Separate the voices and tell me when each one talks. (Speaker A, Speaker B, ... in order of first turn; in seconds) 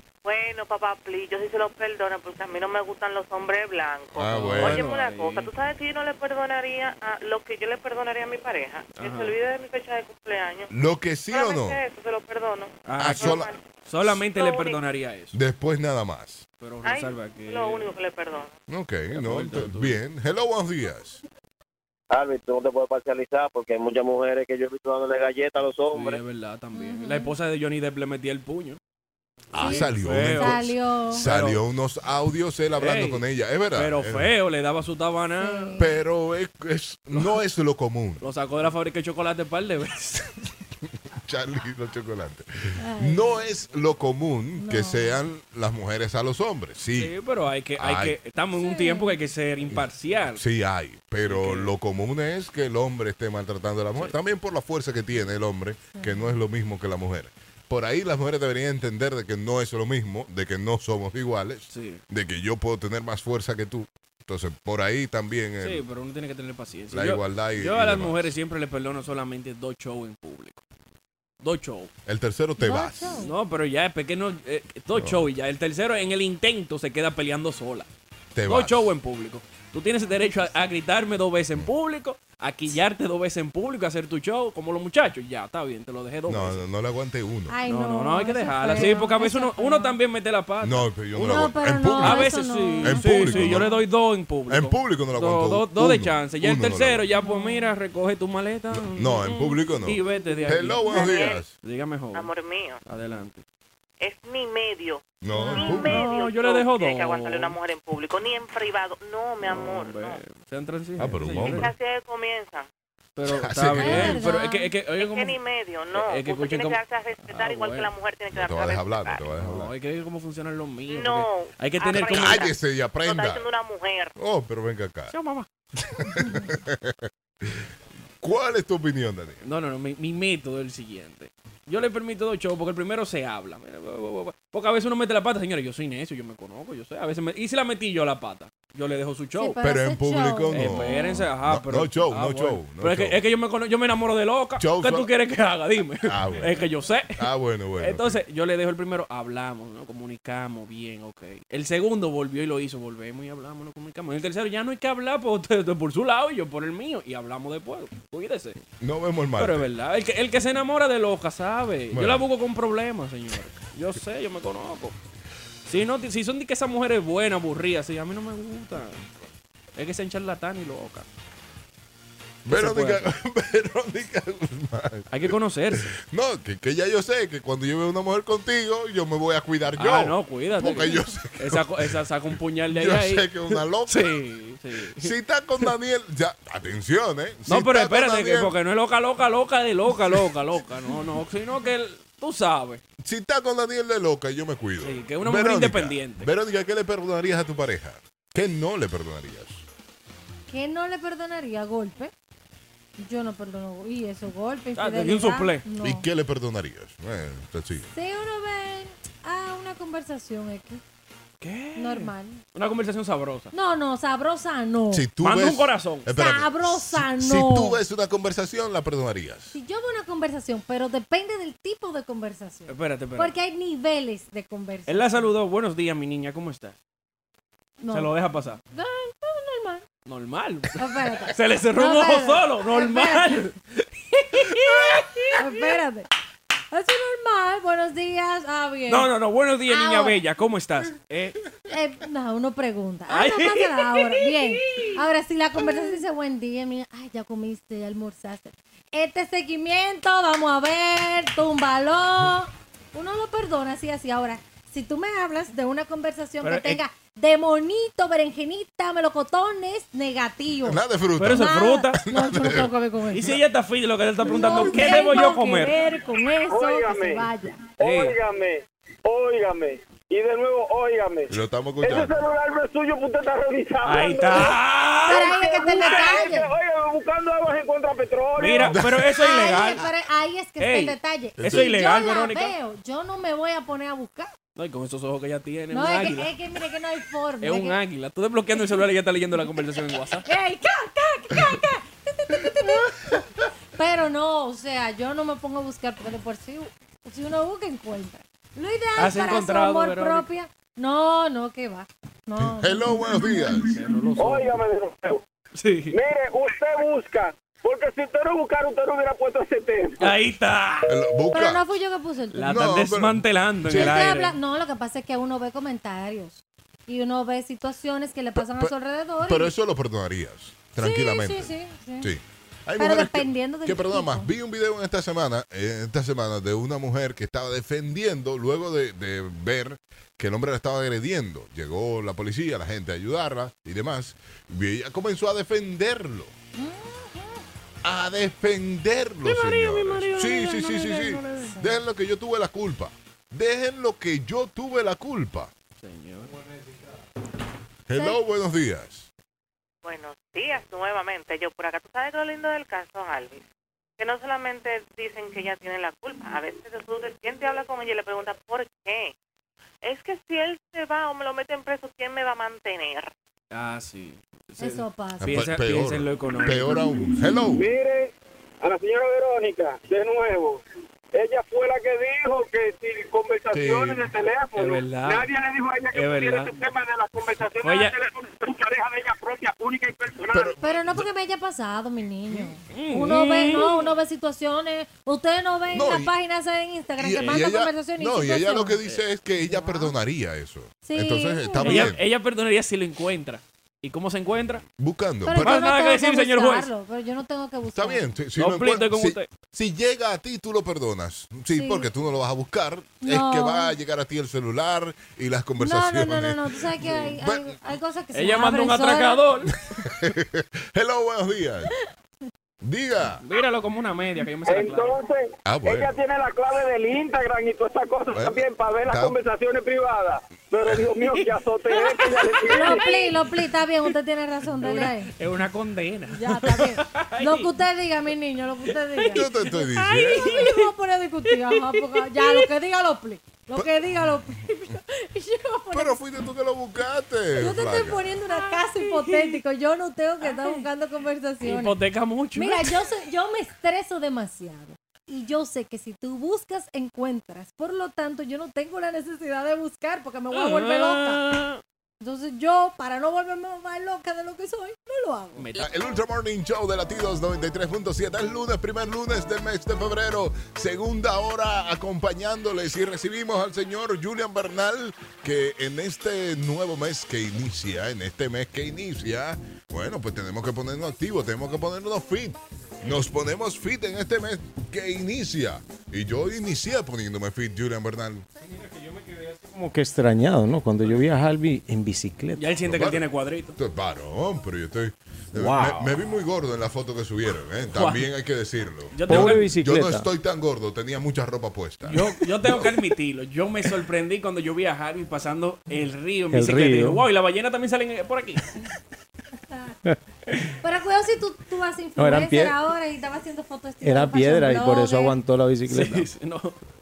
Speaker A: 0.2-10.7, 11.3-13.6, 14.3-14.8, 16.8-18.5, 100.8-101.4, 102.1-102.8, 104.0-110.2, 111.4-112.7, 115.0-119.2, 120.9-124.1, 349.8-353.4, 354.0-359.1, 359.8-363.1
Speaker B: 4.1-4.9, 10.7-11.8, 13.0-13.5, 15.3-16.4, 18.7-21.2, 29.5-34.3, 35.8-38.3, 41.3-47.1, 47.8-48.1, 50.4-65.9, 66.9-68.3, 72.1-73.2, 75.0-75.2, 78.3-79.0, 86.3-87.5, 90.6-93.7, 94.5-97.1, 98.7-101.5, 105.2-106.0, 111.0-111.7, 113.3-114.2, 118.3-119.7, 121.9-123.5, 124.2-125.2, 125.8-127.6, 128.2-129.4, 139.6-143.2, 144.6-145.1, 146.0-146.6, 147.2-148.2, 158.8-159.7, 161.9-162.2, 172.4-182.0, 182.7-184.1, 185.0-188.6, 193.0-199.6, 205.8-207.9, 214.9-219.6, 260.6-262.7, 271.3-272.1, 278.6-279.2, 281.4-281.8, 302.4-303.8, 310.9-311.8, 312.4-314.1, 318.4-336.3, 337.8-345.5, 347.9-349.1, 365.2-367.6, 373.5-374.1, 380.3-381.1, 385.7-386.1, 387.0-392.0, 394.8-395.7, 397.7-407.6, 409.9-411.7, 412.6-413.2, 415.4-415.9, 418.1-419.2, 429.1-430.5, 435.7-438.0, 455.6-478.3, 482.6-492.8
Speaker C: 4.3-5.5, 9.0-9.3, 12.9-15.4, 16.6-17.9, 19.1-20.0, 25.9-28.8, 29.6-31.6, 32.8-33.2, 33.7-35.8, 38.2-40.3, 47.0-50.4, 51.3-51.8, 61.7-62.0, 65.6-70.6, 71.4-71.9, 73.2-77.9, 78.5-86.6, 87.7-91.4, 92.0-102.3, 102.9-103.4, 105.6-107.6, 109.5-111.7, 113.2-115.4, 115.9-117.9, 119.3-122.5, 125.1-125.5, 129.4-139.6, 140.5-147.2, 147.8-158.6, 159.4-165.0, 165.7-169.0, 169.8-171.1, 172.5-173.1, 175.1-175.9, 179.8-185.7, 187.5-192.8, 194.8-196.3, 204.8-205.6, 211.4-213.5, 215.2-216.1, 222.7-223.3, 224.9-226.8, 227.9-228.6, 230.1-235.8, 238.9-241.4, 243.1-245.0, 256.4-256.8, 261.2-262.0, 263.1-265.8, 267.8-268.2, 273.8-276.3, 278.4-279.9, 280.6-282.5, 284.6-286.3, 287.4-290.2, 299.0-300.3, 303.6-304.6, 305.6-306.0, 310.0-310.9, 312.3-314.4, 339.2-341.6, 345.8-346.3, 363.5-366.9, 374.6-375.3, 375.9-376.6, 377.6-377.9, 382.3-384.0, 388.9-389.9, 391.6-394.6, 395.4-396.7, 398.4-399.3, 408.1-409.7, 413.2-415.0, 421.1-422.9, 424.6-427.5, 428.9-429.4, 430.2-430.6, 431.2-432.5, 438.3-439.4, 440.2-440.7, 441.4-442.9, 450.3-451.6, 455.4-455.6, 482.4-483.6, 487.7-488.1, 488.9-489.5, 491.9-498.4, 505.7-506.6
Speaker D: 22.1-26.2
Speaker E: 26.7-27.3, 29.6-31.2, 35.4-35.9, 42.8-43.3, 44.6-45.2, 48.6-49.1, 55.9-56.3, 72.6-73.3, 87.5-90.0, 91.2-93.8, 97.2-97.7, 105.3-105.8, 113.8-114.7, 139.4-141.2, 200.5-202.1, 203.0-206.1, 207.9-210.8, 211.8-212.4, 213.5-215.1, 216.1-217.8, 219.5-225.3, 227.8-228.1, 228.7-229.8, 230.8-233.5, 235.3-236.1, 236.7-239.1, 239.7-240.2, 241.7-263.3, 264.2-267.7, 273.9-276.5, 279.1-284.3, 285.7-287.8, 290.2-293.2, 293.8-303.5, 311.3-312.6, 313.7-319.5, 320.8-322.1, 322.8-324.3, 336.6-337.4, 341.4-341.7, 347.9-348.2, 364.6-365.5, 380.6-388.8, 390.8-391.9, 395.2-398.1, 401.5-401.9, 403.0-403.7, 405.6-409.2, 422.5-425.1, 426.1-436.0, 437.4-441.8, 442.4-451.2, 452.0-455.5, 500.6-505.1
Speaker F: 266.5-267.3, 267.8-274.6, 275.1-278.8, 304.2-305.2, 305.9-310.1, 367.5-370.6, 371.1-380.6, 414.5-423.1
Speaker G: 478.4-482.5, 485.3-486.0, 489.1-490.1, 496.3-497.0, 499.9-500.5, 502.0-502.6, 503.8-506.1